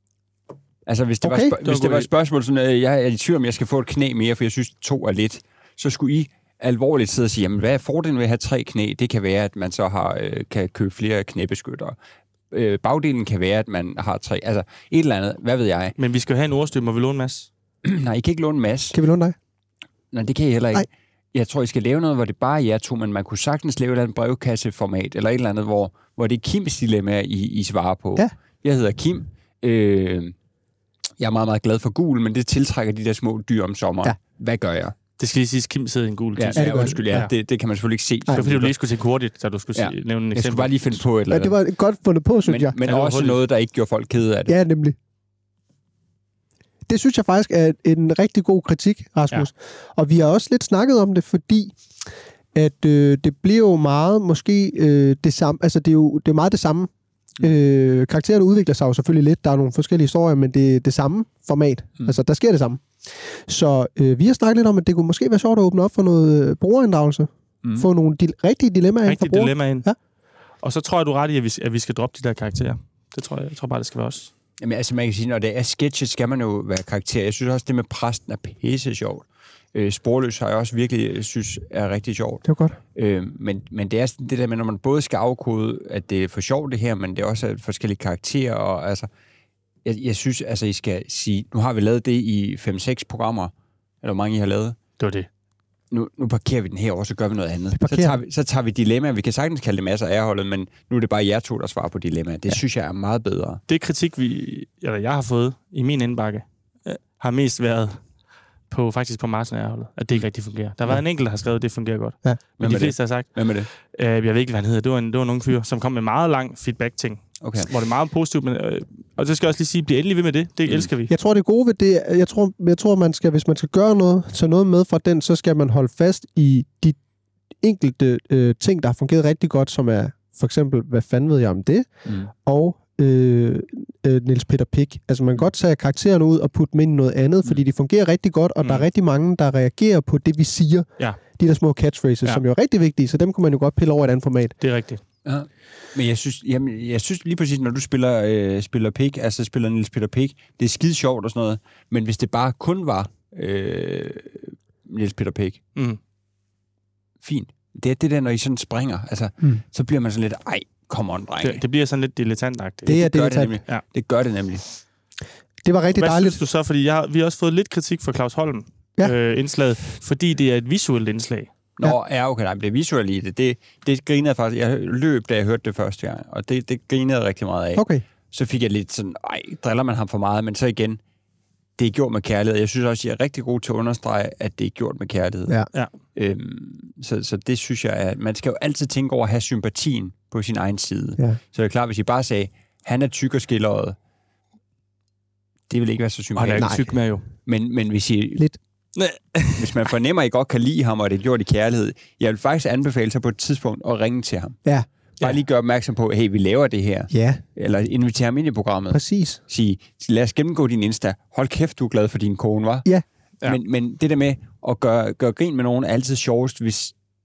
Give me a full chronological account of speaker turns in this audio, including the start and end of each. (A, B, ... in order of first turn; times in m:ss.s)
0:00.9-0:12.0 A
0:01.2-0:01.6 B
0:01.6-0:02.1 C
0:12.5-0:16.0 A
0:16.0-0:17.5 C
0:17.8-0:19.0 A
0:18.9-0:19.4 B
0:20.1-0:30.3 A
0:31.2-0:34.9 A
0:35.2-0:37.3 C
0:36.4-0:38.7 A
0:36.5-0:37.0 B
0:38.3-0:41.0 C
0:39.7-0:41.6 A
0:41.3-0:42.8 B
0:42.4-0:44.6 A
0:42.8-0:43.4 C
0:44.5-0:45.0 B
0:46.9-0:51.8 B
0:52.5-1:10.0 B
1:09.0-1:09.9 C
1:10.6-1:14.3 C
1:14.6-1:29.1 A
1:22.4-1:22.8 B
1:29.8-1:34.8 A
1:35.0-1:35.3 C
1:35.9-1:43.6 A
1:37.7-1:38.2 B
1:43.7-1:48.0 C
1:48.7-2:01.1 C
1:52.6-1:53.7 A
1:57.4-1:57.7 A
2:01.1-2:07.0 B
2:07.6-2:24.6 B
2:24.6-2:25.0 C
2:25.2-2:35.6 A
2:37.2-2:41.6 A
2:41.4-2:43.0 C
2:42.9-2:43.6 B
2:42.9-2:44.6 A
2:45.6-2:46.4 B
2:46.0-2:51.5 C
2:51.8-3:01.0 A
2:57.7-2:58.0 B
3:01.8-3:14.0 A
3:15.7-3:16.9 A
3:16.4-3:17.2 C
3:17.4-3:18.5 A
3:19.0-3:19.7 C
3:19.6-3:24.6 A
3:25.2-3:32.9 A
3:27.1-3:27.4 B
3:28.9-3:29.4 B
3:33.4-3:36.9 A